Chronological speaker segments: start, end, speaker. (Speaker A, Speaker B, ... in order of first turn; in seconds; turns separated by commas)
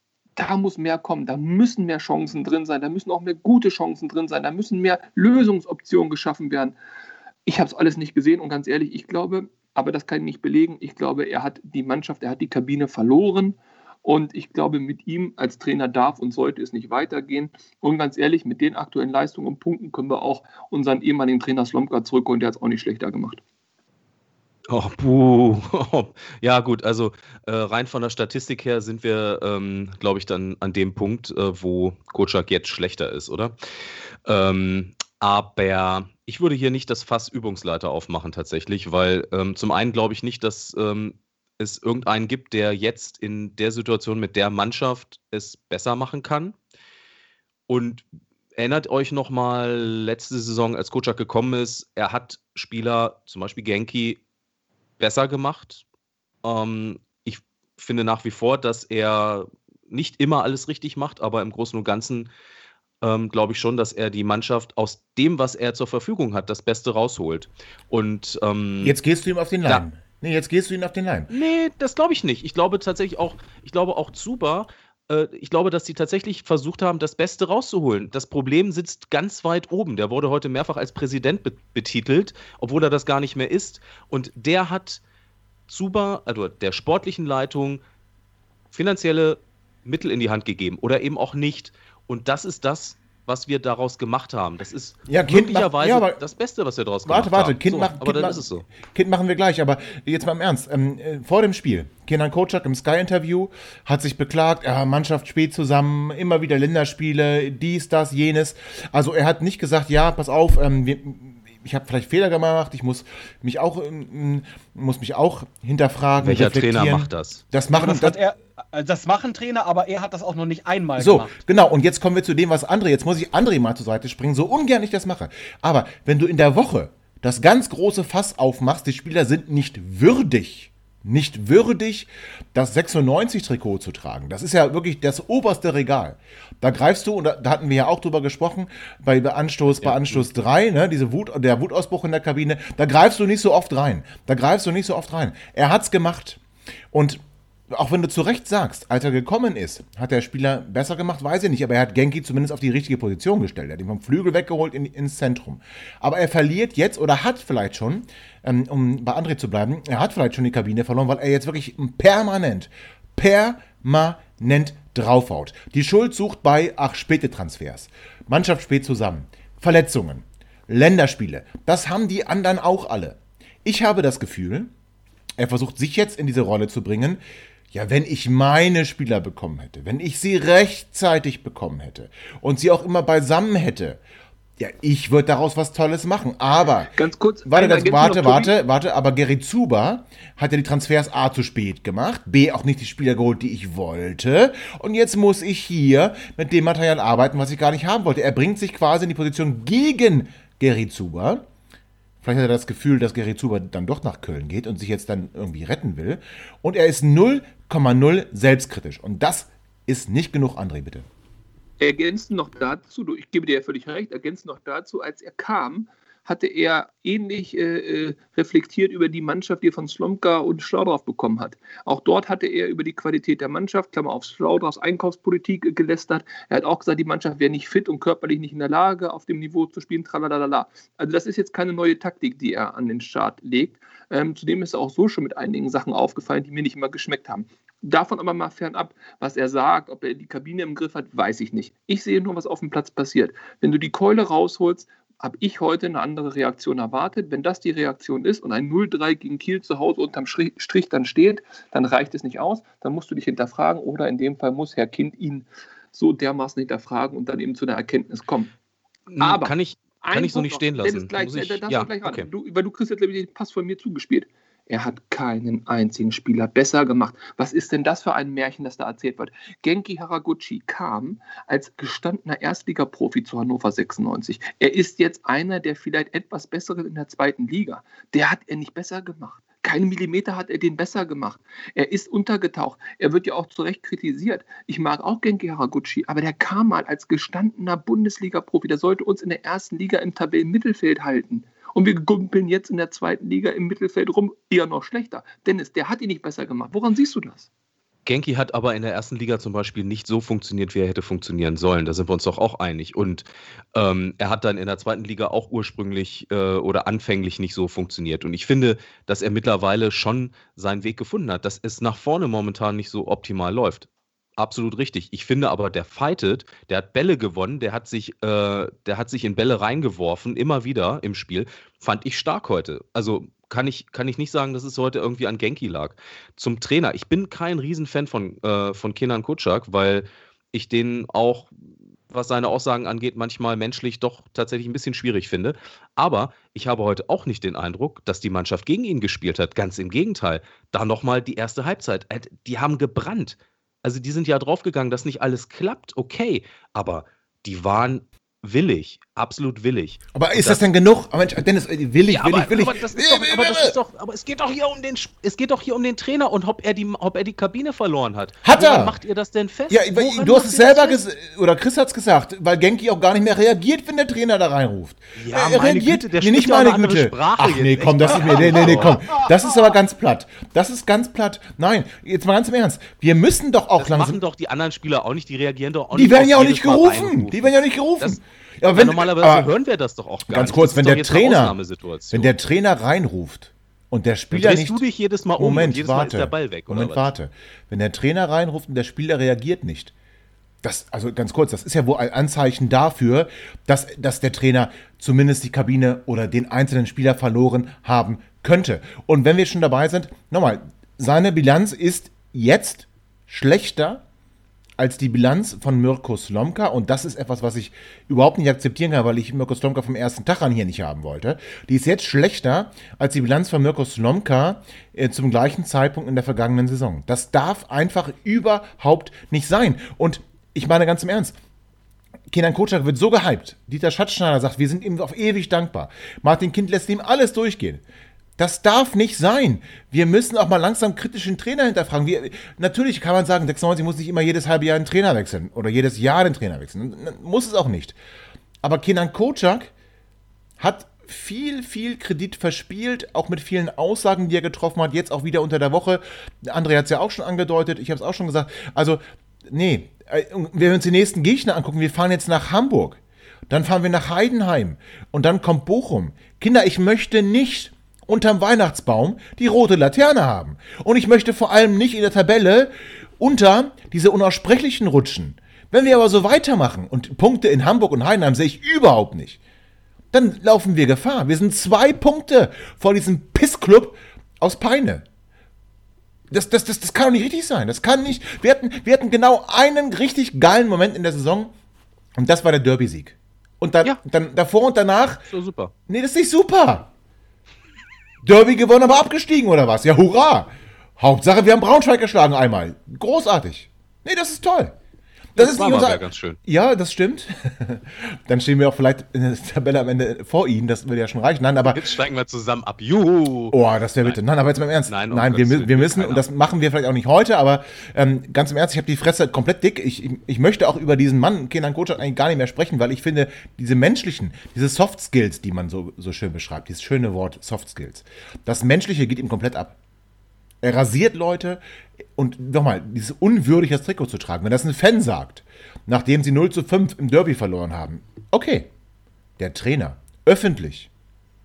Speaker A: 0.4-6.8, Speaker A: 7.5-23.4, Speaker B: 24.7-33.6, Speaker B: 34.3-46.6, Speaker B: 47.7-48.0, Speaker B: 48.6-54.2, Speaker B: 55.0-55.8, Speaker B: 56.4-62.3, Speaker B: 63.0-69.0, Speaker C: 68.8-71.3, Speaker B: 71.3-85.0, Speaker B: 85.7-87.8, Speaker B: 88.7-98.7, Speaker C: 95.1-96.2, Speaker C: 97.1-118.2, Speaker B: 116.2-117.4, Speaker D: 117.7-121.4, Speaker C: 121.0-146.4, Speaker B: 139.8-140.3, Speaker C: 146.9-147.2, Speaker C: 147.7-174.7, Speaker C: 175.4-177.2, Speaker C: 177.7-184.0, Speaker C: 184.6-186.9, Speaker A: 186.9-188.5, Speaker C: 187.5-201.4, Speaker C: 202.2-211.1, Speaker A: 211.8-258.5, Speaker B: 259.1-262.3, Speaker A: 259.2-297.5, Speaker B: 298.1-331.5, Speaker B: 332.1-350.6, Speaker C: 350.1-353.8, Speaker B: 352.1-361.0, Speaker C: 358.4-359.0, Speaker C: 359.7-374.2, Speaker B: 365.2-369.2, Speaker B: 373.8-378.2, Speaker C: 375.9-379.5, Speaker B: 378.7-382.3, Speaker C: 380.3-381.6, Speaker C: 382.1-384.8, Speaker B: 384.3-387.1, Speaker C: 385.4-389.9, Speaker C: 390.6-404.0, Speaker C: 404.8-421.4, Speaker C: 422.3-427.8, Speaker C: 428.4-438.0, Speaker C: 438.6-439.7, Speaker C: 440.6-469.4, Speaker C: 470.1-475.1, Speaker C: 476.3-481.5, Speaker C: 482.2-485.2, Speaker B: 485.3-485.7, Speaker C: 485.9-486.9, Speaker C: 488.2-494.8, Speaker C: 495.4-501.9, Speaker B: 495.4-496.4, Speaker B: 501.6-504.2, Speaker C: 503.5-519.8, Speaker B: 504.9-506.2, Speaker C: 520.6-521.6, Speaker C: 522.2-528.7, Speaker C: 529.4-530.9